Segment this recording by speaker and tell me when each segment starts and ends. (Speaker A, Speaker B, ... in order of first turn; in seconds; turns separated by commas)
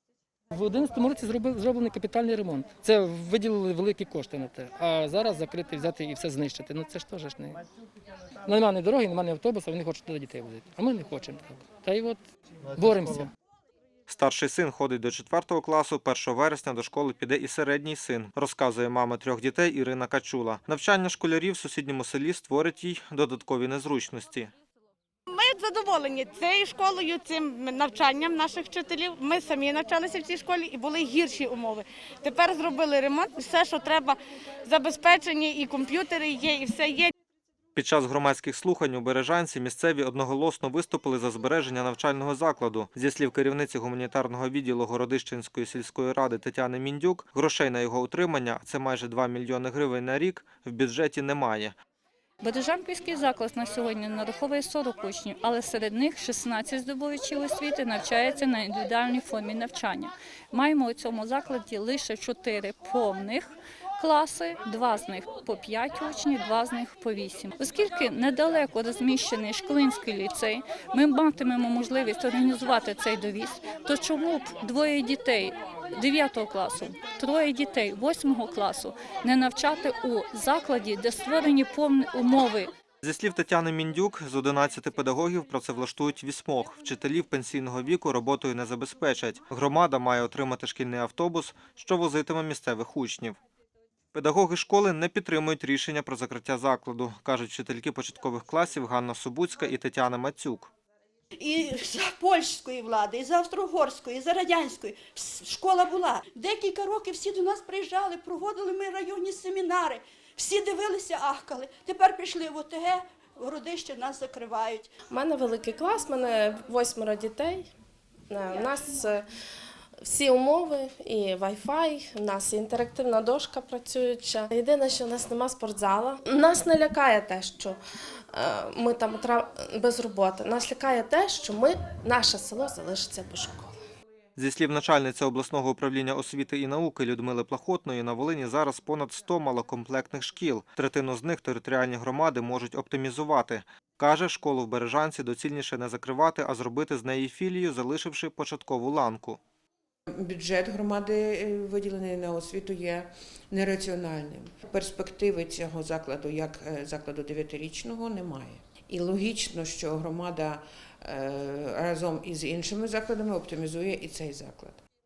Speaker A: 0.5-7.6, Speaker A: 8.4-12.2, Speaker A: 12.7-13.3, Speaker B: 14.1-24.5, Speaker C: 25.3-37.1, Speaker B: 37.8-51.8, Speaker D: 52.4-82.7, Speaker B: 83.0-93.4, Speaker B: 94.1-100.7, Speaker E: 101.4-114.9, Speaker F: 115.1-117.7, Speaker F: 118.3-119.2, Speaker F: 120.0-127.8, Speaker F: 128.3-133.8, Speaker B: 134.3-149.4, Speaker G: 150.1-164.8